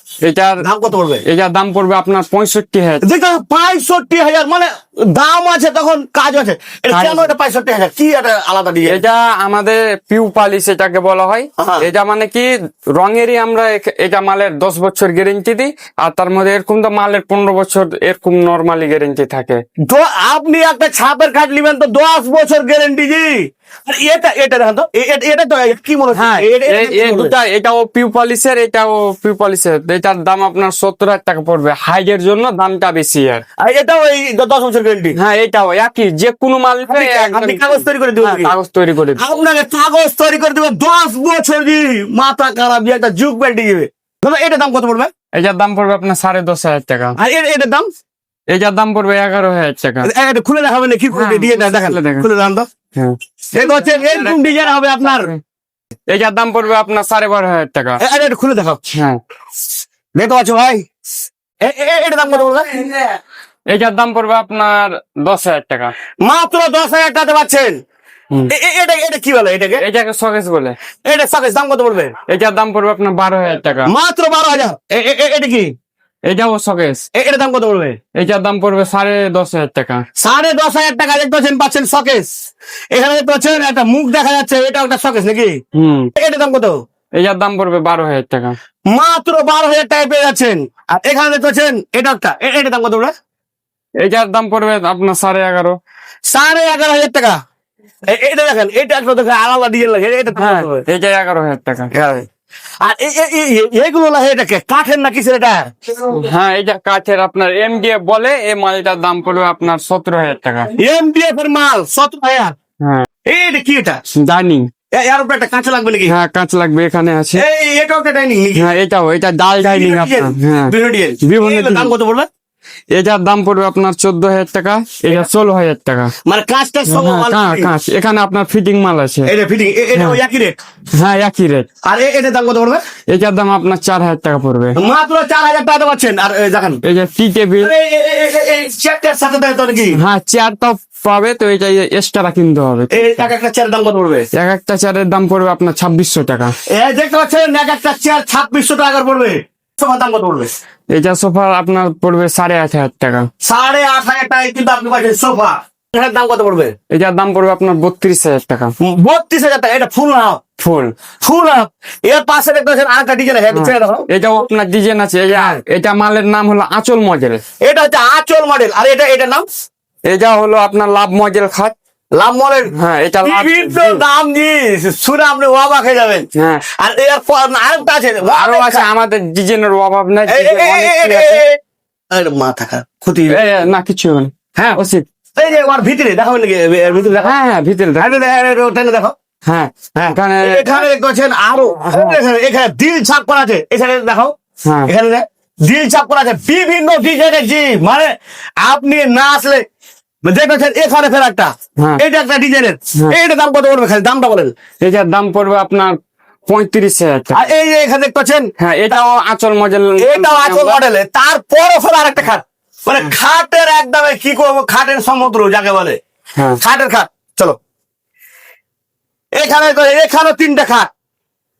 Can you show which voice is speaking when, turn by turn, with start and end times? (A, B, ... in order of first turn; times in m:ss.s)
0:00.2-0:00.6 A
0:00.6-0:01.2 B
0:01.2-0:03.0 A
0:03.0-0:09.0 B
0:06.9-0:07.3 A
0:08.8-0:19.6 A
0:11.6-0:11.9 B
0:19.9-0:27.3 B
0:26.1-0:33.4 A
0:33.6-0:35.2 B
0:35.2-0:39.2 A
0:36.9-0:38.5 B
0:39.2-0:45.1 B
0:45.3-0:47.2 A
0:47.2-0:47.9 B
0:48.5-0:50.1 A
0:50.0-0:52.7 B
0:51.1-0:52.3 A
0:52.9-0:54.4 A
0:53.5-0:55.3 B
0:55.1-0:55.4 A
0:56.1-0:58.0 A
0:58.0-0:58.8 B
0:58.9-0:59.2 A
1:00.2-1:00.9 B
1:01.6-1:03.1 B
1:03.7-1:05.9 A
1:06.2-1:07.8 B
1:08.5-1:09.8 B
1:09.8-1:10.8 A
1:11.0-1:12.1 B
1:12.3-1:13.9 A
1:13.8-1:15.7 B
1:16.2-1:17.0 A
1:17.1-1:18.0 B
1:18.1-1:20.0 A
1:20.2-1:22.3 B
1:22.9-1:25.6 B
1:25.7-1:26.1 A
1:26.2-1:26.8 B
1:27.2-1:28.6 A
1:28.9-1:33.1 B
1:34.0-1:35.8 A
1:36.3-1:37.4 B
1:38.1-1:40.8 B
1:40.3-1:41.9 A
1:41.9-1:42.2 B
1:42.8-1:45.7 B
1:46.0-1:50.7 A
1:50.8-1:52.5 B
1:52.8-1:53.0 A
1:53.2-1:54.0 B
1:54.1-1:54.7 A
1:54.9-1:56.1 B
1:56.0-1:57.4 A
1:57.4-1:58.7 B
1:58.6-2:00.7 A
1:59.6-2:02.3 B
2:01.2-2:01.9 A
2:02.9-2:06.1 A
2:06.2-2:07.7 B
2:06.9-2:09.3 A
2:09.2-2:10.6 B
2:11.0-2:11.7 A
2:11.8-2:12.8 B
2:13.1-2:14.8 A
2:14.8-2:16.8 B
2:16.8-2:17.7 A
2:17.6-2:20.0 B
2:19.9-2:23.3 A
2:22.9-2:24.3 B
2:24.3-2:26.5 A
2:26.7-2:30.5 B
2:30.9-2:33.3 A
2:33.4-2:36.7 B
2:36.9-2:38.7 A
2:38.8-2:40.4 B
2:40.6-2:40.9 A
2:41.2-2:44.1 B
2:43.5-2:47.4 A
2:45.3-2:45.6 B
2:47.6-2:49.4 B
2:50.1-2:51.7 A
2:52.1-2:52.7 B
2:52.7-2:54.0 A
2:53.2-2:58.8 B
2:56.3-2:56.6 A
2:58.3-3:01.4 A
3:00.3-3:01.6 B
3:02.1-3:03.4 B
3:03.3-3:05.0 A
3:05.4-3:07.3 B
3:07.2-3:08.1 A
3:08.0-3:09.1 B
3:09.4-3:10.8 A
3:09.9-3:14.3 B
3:11.6-3:12.2 A
3:14.6-3:14.9 A
3:14.8-3:19.6 B
3:20.2-3:24.5 B
3:24.8-3:25.9 A
3:26.5-3:27.4 A
3:27.3-3:28.5 B
3:28.6-3:30.8 A
3:30.0-3:36.0 B
3:36.6-3:37.6 B
3:39.3-3:40.9 B